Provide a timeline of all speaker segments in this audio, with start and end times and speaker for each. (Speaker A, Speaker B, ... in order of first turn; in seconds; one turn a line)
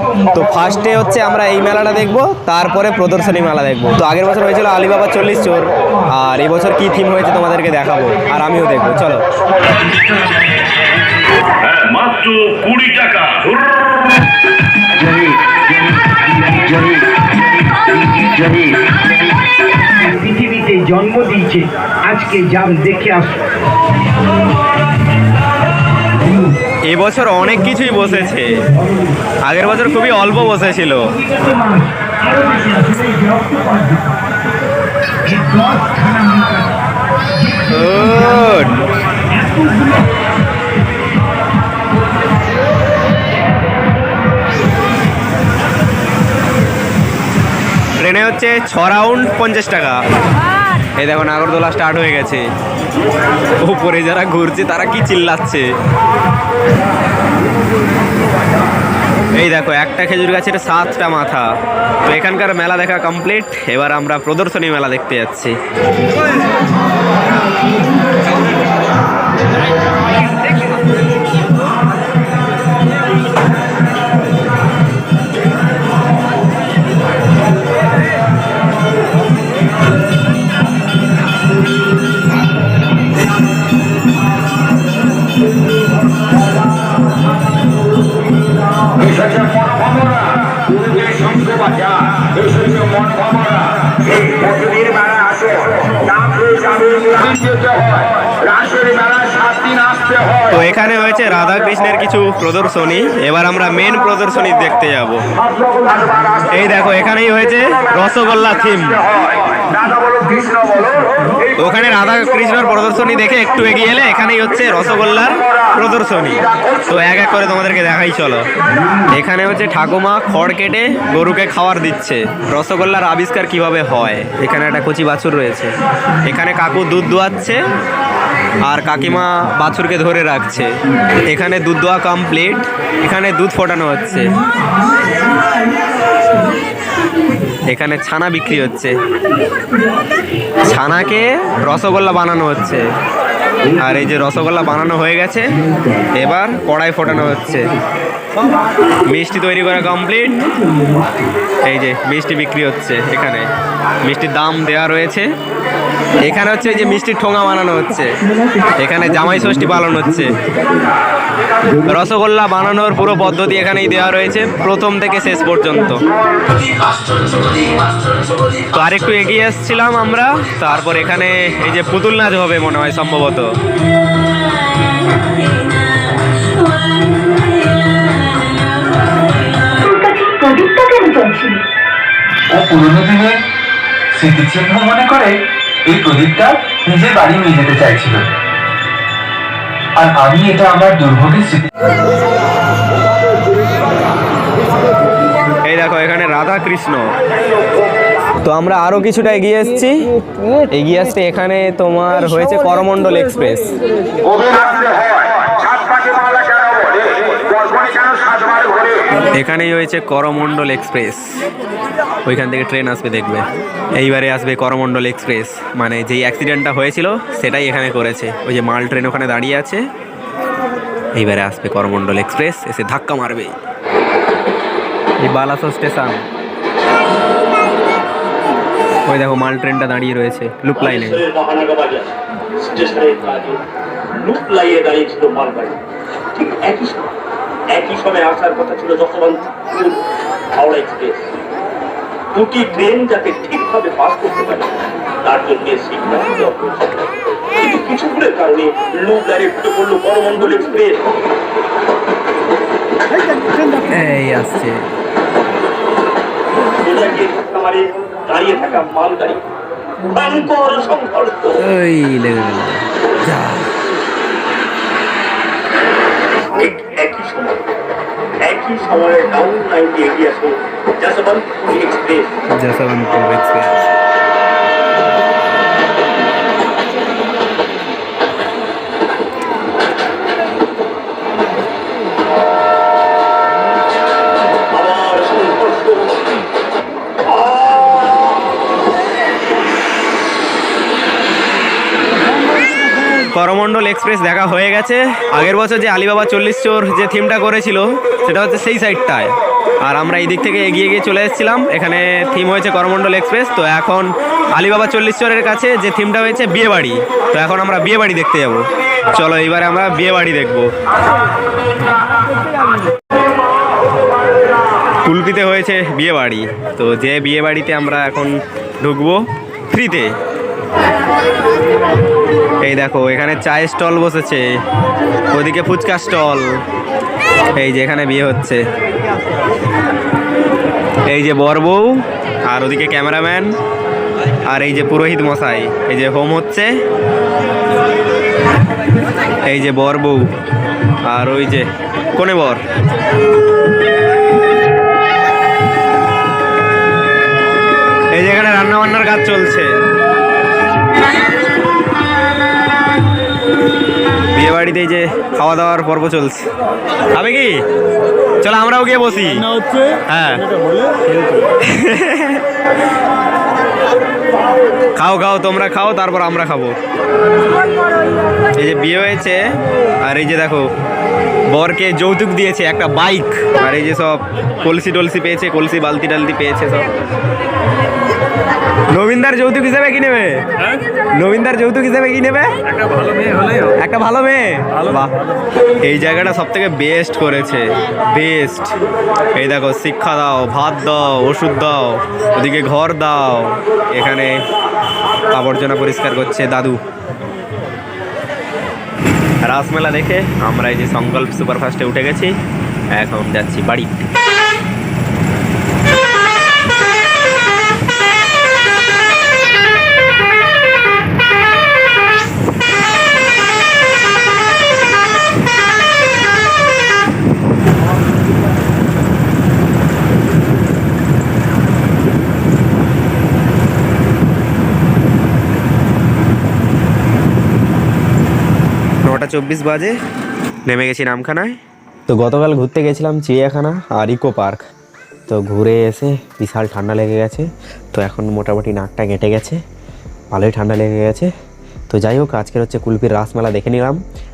Speaker A: 0.3-9.2
Speaker B: 11.7-13.7
Speaker C: 19.9-23.4
Speaker A: 26.9-28.6
Speaker A: 29.4-31.1
Speaker C: 31.2-34.1
Speaker C: 35.2-36.8
Speaker C: 37.4-40.1
Speaker A: 37.7-38.8
Speaker A: 48.0-50.0
Speaker A: 51.0-52.4
Speaker A: 53.6-55.6
Speaker A: 59.3-61.5
Speaker A: 62.0-65.6
Speaker A: 100.4-105.2
Speaker A: 106.5-109.0
Speaker A: 111.6-118.5
Speaker A: 119.1-125.7
Speaker A: 126.2-127.6
Speaker A: 128.6-130.7
Speaker A: 131.3-134.3
Speaker A: 137.7-139.0
Speaker A: 140.6-142.9
Speaker A: 143.8-145.5
Speaker A: 146.2-147.7
Speaker A: 149.1-150.4
Speaker A: 151.6-153.5
Speaker A: 154.0-155.2
Speaker A: 156.2-158.1
Speaker A: 158.8-160.3
Speaker A: 161.8-166.0
Speaker A: 168.7-173.5
Speaker D: 176.6-177.5
Speaker D: 179.8-181.6
Speaker E: 182.5-183.4
Speaker E: 184.1-188.3
Speaker E: 189.9-191.7
Speaker A: 195.6-197.1
Speaker A: 198.4-200.0
Speaker A: 200.7-203.8
Speaker A: 209.2-211.4
Speaker A: 212.2-219.8
Speaker A: 221.1-223.6
Speaker A: 225.2-226.2
Speaker A: 229.1-231.2
Speaker F: 230.8-235.8
Speaker F: 236.3-237.1
Speaker F: 237.7-240.0
Speaker F: 240.6-241.3
Speaker F: 242.3-251.2
Speaker A: 253.8-254.9
Speaker F: 256.8-259.4
Speaker F: 260.0-261.6
Speaker A: 261.6-263.7
Speaker F: 266.4-267.7
Speaker F: 268.4-272.4
Speaker A: 272.6-273.9
Speaker F: 284.7-286.3
Speaker F: 287.2-287.9
Speaker A: 293.3-310.7
Speaker A: 315.0-320.1
Speaker A: 322.6-324.4
Speaker A: 325.3-326.6
Speaker A: 327.5-328.6
Speaker A: 331.1-333.5
Speaker A: 334.5-336.7
Speaker A: 339.4-340.2
Speaker A: 341.1-342.6
Speaker A: 348.1-349.7
Speaker A: 354.3-356.5
Speaker A: 357.1-357.6
Speaker A: 358.4-360.5
Speaker A: 361.6-362.4
Speaker A: 364.9-366.7
Speaker A: 368.6-369.5
Speaker A: 370.0-370.7
Speaker A: 371.5-376.9
Speaker A: 378.9-380.5
Speaker A: 381.1-382.6
Speaker A: 383.2-385.1
Speaker A: 385.8-388.7
Speaker A: 389.3-394.4
Speaker A: 395.3-396.8
Speaker A: 399.4-402.3
Speaker A: 402.9-404.1
Speaker A: 429.0-429.9
Speaker A: 430.6-431.6
Speaker A: 432.1-434.6
Speaker A: 435.3-439.6
Speaker A: 440.3-441.3
Speaker A: 441.9-444.0